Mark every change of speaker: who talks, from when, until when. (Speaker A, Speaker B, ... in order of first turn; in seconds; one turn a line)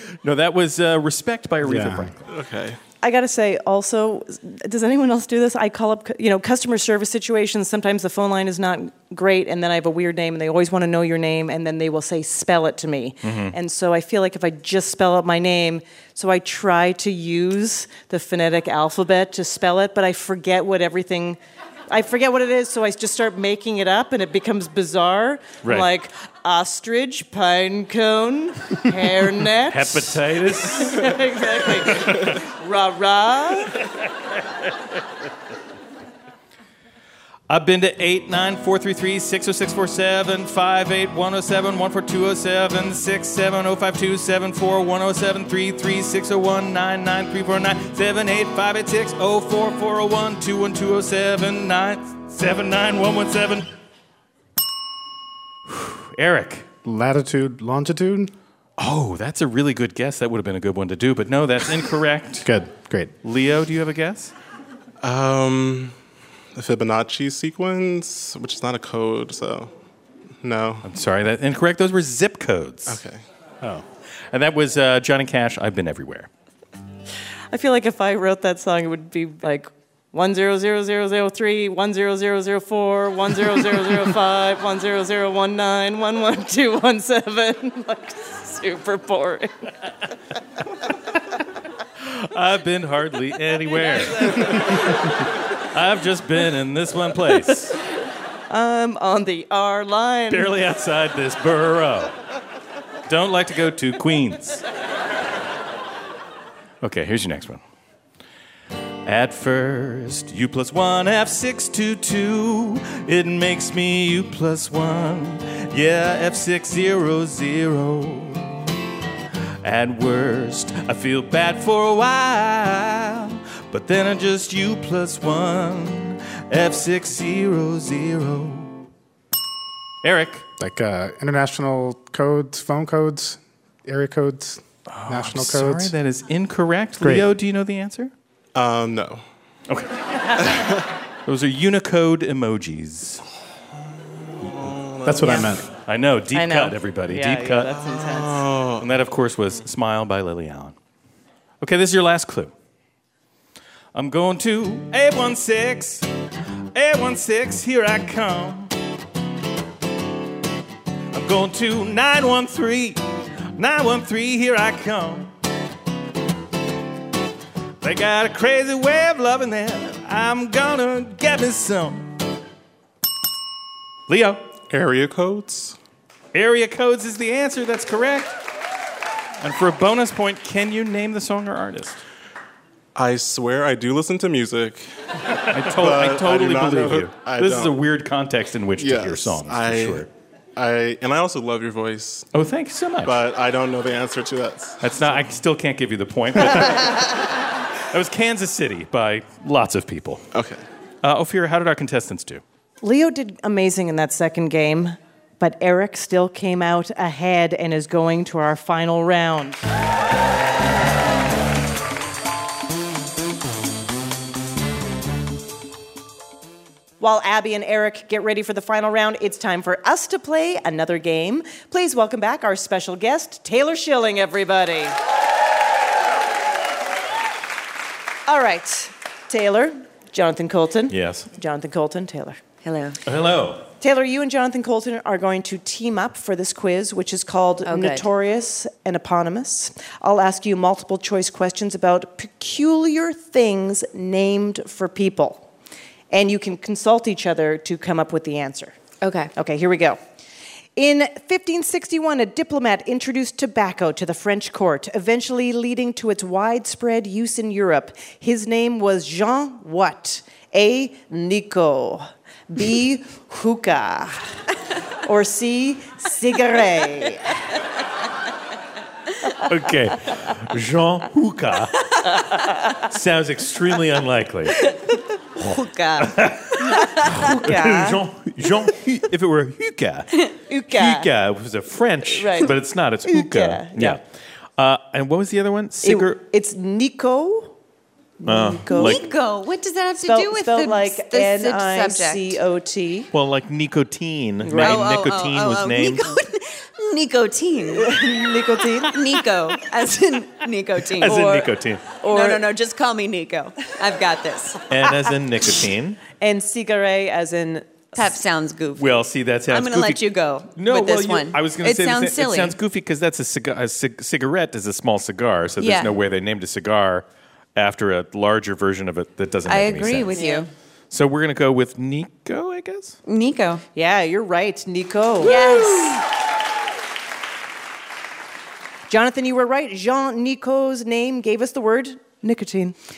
Speaker A: 0.2-2.2
Speaker B: 1.6-2.1
Speaker C: 2.3-2.8
Speaker D: 3.0-33.8
Speaker A: 13.2-13.6
Speaker A: 25.6-25.9
Speaker A: 29.7-31.2
Speaker A: 31.9-32.3
Speaker A: 37.5-53.7
Speaker A: 55.7-56.7
Speaker B: 56.9-58.3
Speaker A: 58.8-62.5
Speaker B: 62.4-63.1
Speaker A: 63.2-64.3
Speaker C: 65.0-66.0
Speaker C: 66.5-69.7
Speaker C: 70.4-70.8
Speaker A: 70.8-73.0
Speaker C: 72.9-73.2
Speaker A: 74.3-76.3
Speaker D: 77.5-89.7
Speaker A: 92.0-97.8
Speaker D: 98.5-100.5
Speaker A: 100.3-102.2
Speaker A: 103.1-104.6
Speaker A: 106.8-107.6
Speaker A: 109.1-118.7
Speaker A: 119.6-128.8
Speaker A: 130.0-130.4
Speaker B: 130.6-135.9
Speaker A: 134.9-138.1
Speaker B: 137.0-137.3
Speaker C: 138.6-139.2
Speaker A: 139.7-140.5
Speaker C: 140.4-140.8
Speaker A: 141.2-143.2
Speaker C: 144.4-145.4
Speaker B: 145.1-145.7
Speaker D: 145.2-145.6
Speaker A: 145.8-147.7
Speaker D: 146.3-148.5
Speaker C: 148.0-148.8
Speaker A: 148.8-150.8
Speaker A: 151.6-152.5
Speaker A: 153.9-156.1
Speaker A: 156.7-158.7
Speaker A: 161.1-163.0
Speaker A: 163.6-165.3
Speaker A: 167.8-172.1
Speaker A: 174.1-174.4
Speaker C: 174.7-175.8
Speaker A: 176.3-178.3
Speaker A: 179.4-182.0
Speaker C: 182.9-184.9
Speaker A: 185.5-190.1
Speaker C: 185.6-187.8
Speaker C: 188.8-192.3
Speaker A: 192.3-193.2
Speaker C: 193.0-194.8
Speaker A: 194.8-197.3
Speaker A: 197.9-200.3
Speaker C: 200.3-200.6
Speaker A: 201.0-202.4
Speaker D: 202.8-209.6
Speaker D: 217.0-225.0
Speaker D: 228.3-232.4
Speaker A: 230.9-231.3
Speaker E: 232.6-233.0
Speaker A: 233.1-233.7
Speaker D: 233.8-245.5
Speaker E: 237.7-238.1
Speaker D: 246.1-248.8
Speaker E: 249.0-249.3
Speaker D: 249.4-250.0
Speaker D: 250.8-264.4
Speaker D: 265.0-267.6
Speaker A: 269.4-272.0
Speaker A: 272.9-274.6
Speaker E: 275.4-277.2
Speaker A: 276.0-280.1
Speaker D: 277.1-278.0
Speaker D: 280.5-281.1
Speaker A: 280.7-284.0
Speaker D: 282.1-282.5
Speaker D: 283.1-284.0
Speaker A: 284.6-286.2
Speaker D: 285.8-287.6
Speaker D: 288.2-289.0
Speaker A: 288.3-289.0
Speaker E: 288.7-292.4
Speaker D: 290.0-293.1
Speaker A: 293.1-296.2
Speaker D: 294.4-294.8
Speaker E: 294.6-297.9
Speaker D: 297.7-299.0
Speaker E: 298.9-304.6
Speaker A: 301.0-301.9
Speaker D: 302.0-302.4
Speaker A: 304.7-306.0
Speaker D: 306.2-307.9
Speaker E: 307.9-312.6
Speaker A: 308.8-310.0
Speaker A: 310.6-320.2
Speaker E: 315.6-315.9
Speaker E: 319.5-320.5
Speaker D: 320.1-320.4
Speaker A: 320.9-323.0
Speaker E: 323.1-323.6
Speaker D: 323.8-325.9
Speaker E: 325.2-326.0
Speaker D: 328.9-332.8